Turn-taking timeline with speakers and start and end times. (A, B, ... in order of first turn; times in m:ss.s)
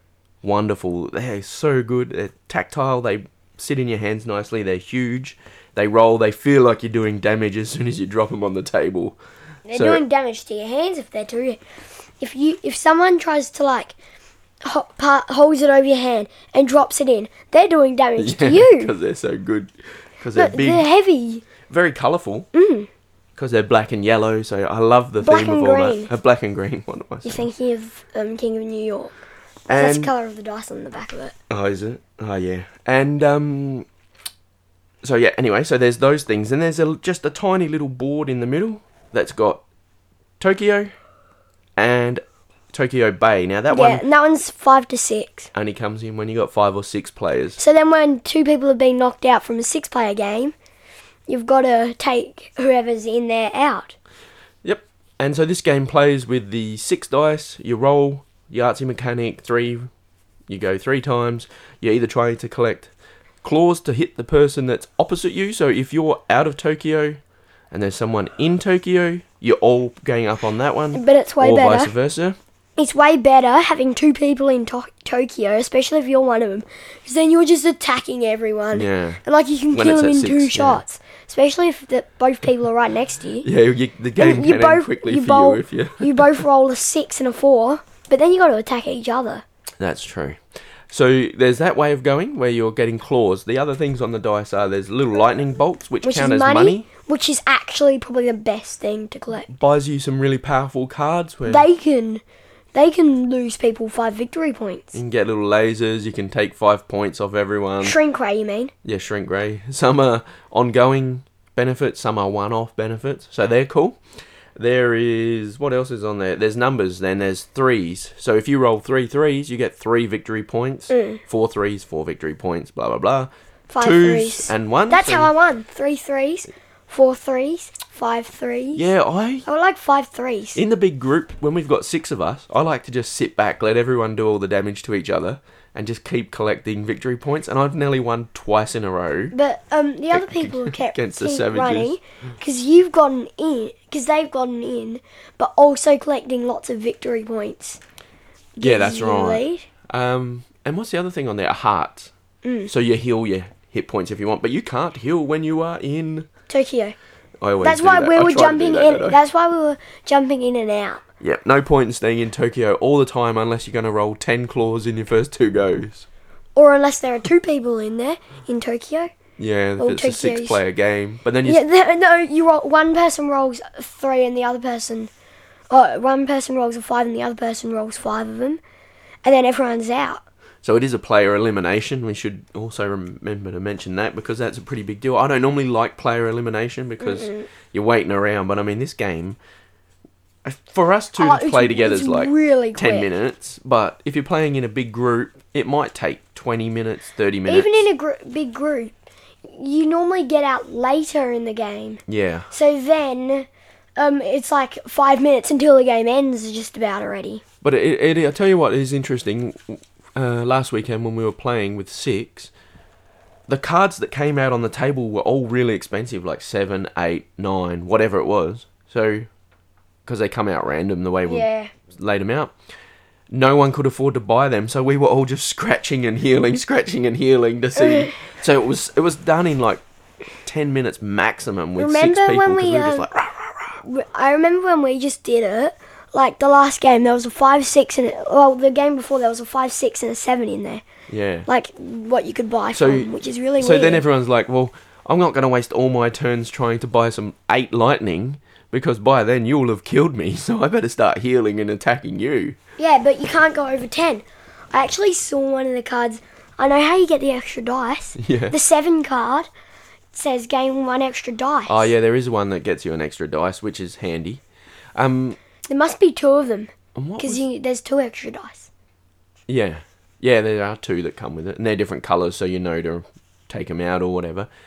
0:00.4-0:09.2 A
0:09.7-0:11.6 B
0:09.7-0:10.0 A
0:12.2-0:14.0 B
0:14.6-0:18.9 B
0:18.2-0:20.9 A
0:20.4-0:21.4 B
0:21.7-0:22.5 A
0:22.5-0:22.9 B
0:23.4-0:27.5 A
0:25.2-0:26.1 B
0:27.2-0:29.1 B
0:29.7-0:30.1 A
0:29.7-0:31.3 B
0:31.5-0:33.9 A
0:35.0-0:39.6 A
0:40.4-0:40.9 A
0:41.8-0:44.0 A
0:43.7-0:45.5 B
0:45.5-0:47.6 A
0:47.6-0:50.6 B
0:51.3-0:54.0 B
0:54.6-0:59.9 A
1:00.5-1:02.9 A
1:03.4-1:07.2 A
1:07.7-1:12.4 A
1:10.9-1:11.9 B
1:12.8-1:23.5 B
1:18.7-1:19.2 A
1:19.7-1:20.8 A
1:23.4-1:26.4 A
1:24.2-1:29.4 B
1:29.8-1:36.9 A
1:36.0-1:39.5 B
1:39.5-1:41.7 A
1:41.5-1:42.2 B
1:42.7-1:45.0 B
1:44.9-1:48.0 A
1:47.8-1:48.7 B
1:48.8-1:54.0 A
1:54.6-2:05.3 A
2:00.9-2:01.2 B
2:03.7-2:08.9 B
2:08.8-2:09.5 A
2:09.4-2:10.6 B
2:10.6-2:19.4 A
2:19.3-2:27.8 B
2:20.1-2:22.0 A
2:28.6-2:29.7 B
2:28.6-2:32.1 A
2:32.4-2:32.7 B
2:32.7-2:36.3 A
2:36.5-2:37.0 B
2:37.4-2:39.2 A
2:37.6-2:41.0 B
2:41.2-2:46.1 A
2:46.6-2:49.1 B
2:49.4-2:51.6 A
2:49.8-2:50.6 B
2:51.4-2:55.1 B
2:55.7-2:58.6 B
2:59.2-3:00.2 B
3:00.6-3:09.4 A
3:07.0-3:07.5 B
3:10.4-3:17.8 A
3:11.2-3:13.1 B
3:17.5-3:18.9 B
3:19.4-3:27.4 B
3:22.1-3:22.5 A
3:27.6-3:32.5 A
3:33.5-3:39.3 A
3:40.1-3:42.6 A
3:41.3-3:41.7 B
3:43.3-3:49.8 A
3:47.8-3:48.2 B
3:50.4-3:53.8 A
3:51.8-3:53.1 B
3:53.8-4:00.8 B
4:01.1-4:01.5 A
4:01.5-4:04.0 B
4:02.7-4:12.6 A
4:12.8-4:19.5 B
4:18.2-4:18.6 A
4:20.1-4:21.9 B
4:21.7-4:24.4 A
4:25.0-4:25.4 A
4:25.7-4:28.7 B
4:27.0-4:27.4 A
4:29.5-4:34.5 A